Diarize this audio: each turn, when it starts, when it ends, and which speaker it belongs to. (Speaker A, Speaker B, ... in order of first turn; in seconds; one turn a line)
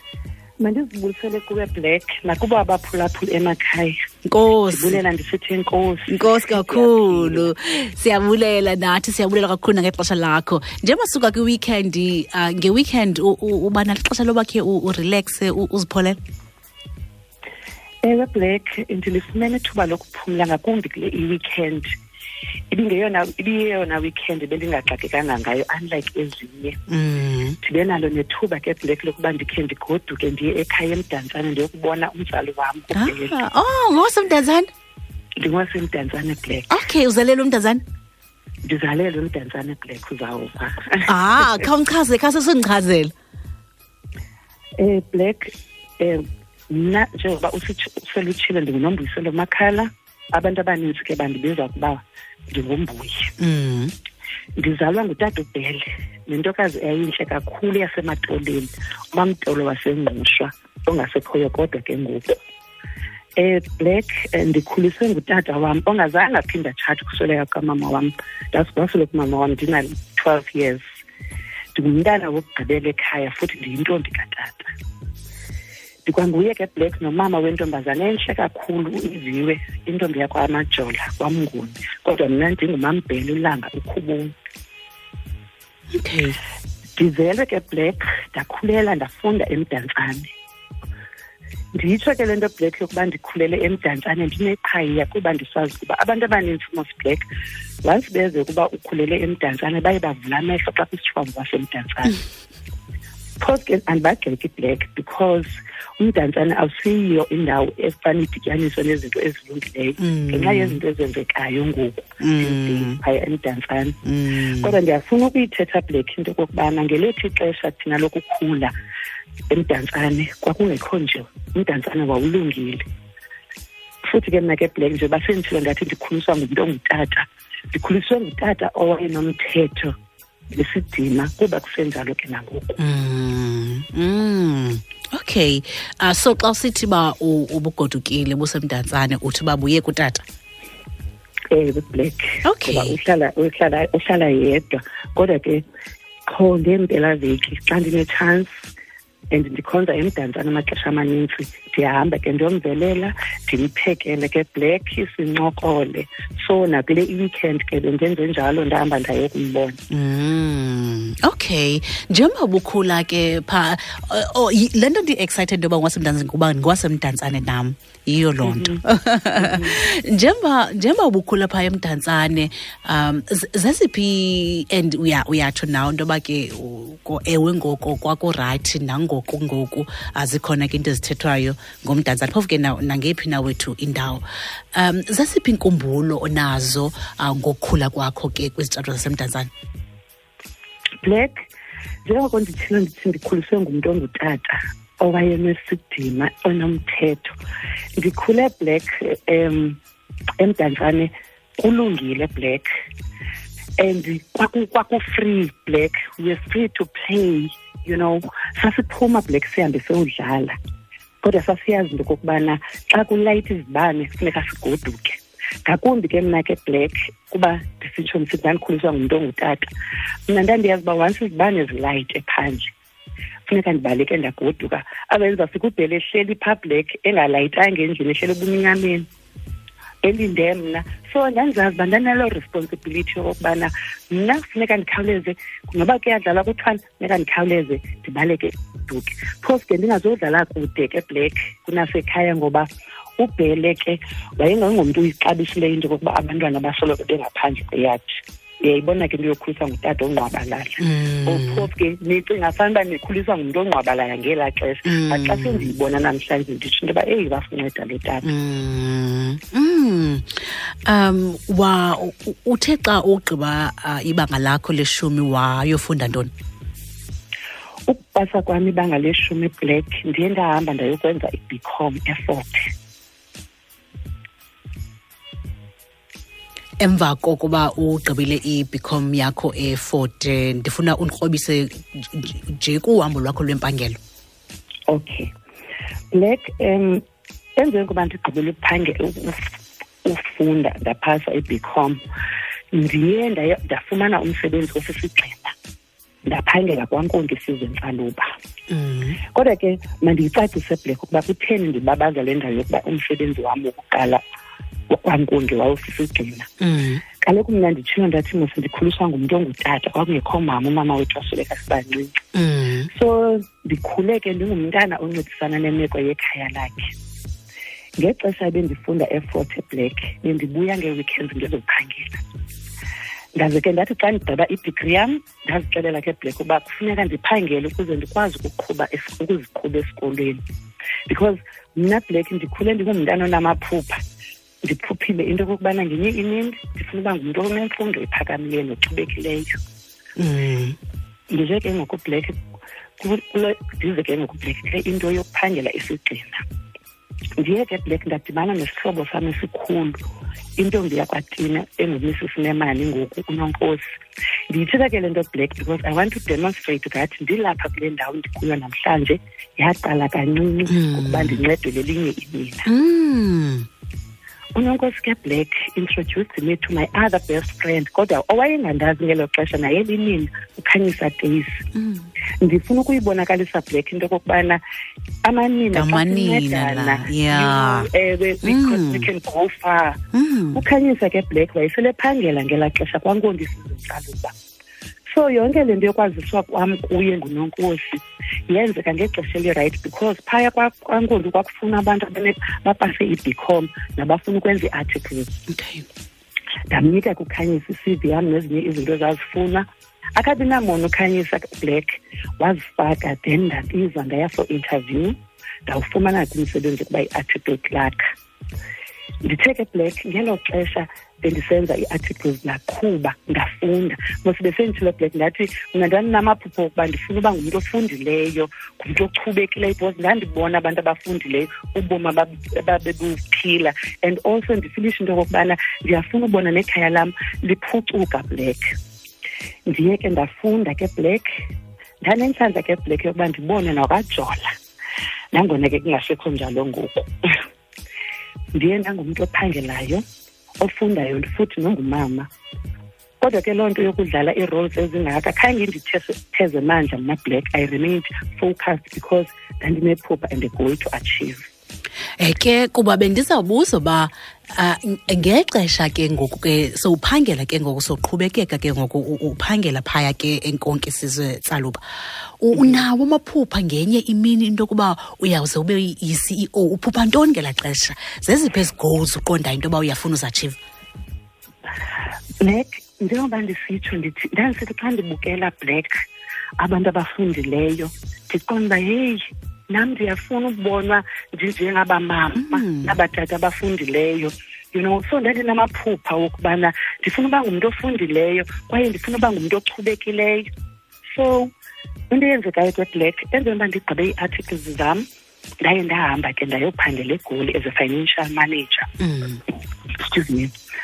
Speaker A: 0.6-4.0
Speaker B: 4.3-5.0
Speaker A: 4.7-7.5
Speaker B: 6.1-16.2
Speaker A: 18.0-22.0
Speaker A: 22.7-26.8
Speaker B: 26.9-27.6
Speaker A: 27.6-33.4
Speaker B: 33.0-34.7
Speaker A: 35.4-36.8
Speaker B: 36.7-37.8
Speaker A: 38.7-41.7
Speaker B: 41.1-43.1
Speaker A: 44.8-53.3
Speaker B: 53.4-53.9
Speaker A: 54.6-62.4
Speaker A: 63.4-70.8
Speaker A: 71.8-74.7
Speaker A: 76.1-84.3
Speaker B: 85.9-86.4
Speaker A: 87.0-90.3
Speaker A: 91.8-97.2
Speaker A: 97.8-102.2
Speaker A: 103.4-114.0
Speaker B: 110.0-110.8
Speaker B: 112.2-113.0
Speaker B: 114.0-114.8
Speaker A: 114.6-118.7
Speaker A: 119.5-122.8
Speaker A: 124.1-129.9
Speaker A: 130.5-132.8
Speaker B: 132.8-140.2
Speaker A: 141.5-145.7
Speaker B: 142.4-143.0
Speaker A: 146.3-148.5
Speaker A: 149.3-159.8
Speaker B: 159.9-184.2
Speaker A: 168.4-168.8
Speaker A: 169.3-169.8
Speaker B: 184.7-189.5
Speaker A: 191.0-191.5
Speaker A: 192.1-197.4
Speaker A: 198.0-199.8
Speaker A: 200.4-202.7
Speaker A: 203.8-210.6
Speaker A: 211.2-219.7
Speaker A: 220.3-222.7
Speaker A: 223.5-229.1
Speaker A: 230.0-258.3
Speaker B: 250.8-251.7
Speaker B: 254.8-255.7
Speaker B: 258.2-266.3
Speaker A: 267.9-272.7
Speaker B: 276.8-284.0
Speaker A: 284.9-285.3
Speaker A: 286.1-287.0
Speaker A: 287.6-289.5
Speaker A: 290.0-292.0
Speaker A: 292.7-295.5
Speaker A: 296.3-298.3
Speaker B: 298.7-299.2
Speaker A: 299.3-304.2
Speaker A: 304.9-306.5
Speaker B: 306.6-307.0
Speaker A: 307.2-312.1
Speaker B: 312.3-312.9
Speaker A: 312.9-316.9
Speaker A: 318.0-322.2
Speaker A: 323.4-330.4
Speaker A: 331.1-334.0
Speaker A: 334.6-339.6
Speaker B: 340.2-340.8
Speaker A: 341.3-342.4
Speaker A: 343.0-346.4
Speaker A: 347.4-350.0
Speaker A: 350.6-353.8
Speaker A: 354.5-362.7
Speaker B: 360.7-361.4
Speaker B: 362.7-363.7
Speaker A: 364.6-371.6
Speaker B: 371.7-372.1
Speaker A: 372.4-374.6
Speaker A: 375.2-380.0
Speaker B: 375.7-377.9
Speaker B: 378.4-379.1
Speaker B: 380.1-380.6
Speaker A: 380.5-384.3
Speaker A: 385.1-395.4
Speaker B: 395.5-395.9
Speaker A: 396.7-408.0
Speaker A: 409.2-428.6
Speaker A: 429.7-431.3
Speaker A: 432.0-434.5
Speaker A: 435.3-437.4
Speaker A: 438.6-440.0
Speaker A: 440.6-442.3
Speaker A: 443.2-451.5
Speaker B: 452.2-461.8
Speaker B: 462.4-470.6
Speaker A: 462.5-462.9
Speaker A: 472.4-476.0
Speaker A: 476.6-490.5
Speaker B: 482.4-483.0
Speaker A: 491.1-491.5
Speaker A: 492.1-495.1
Speaker A: 495.6-498.9
Speaker B: 499.0-499.4
Speaker A: 500.0-500.5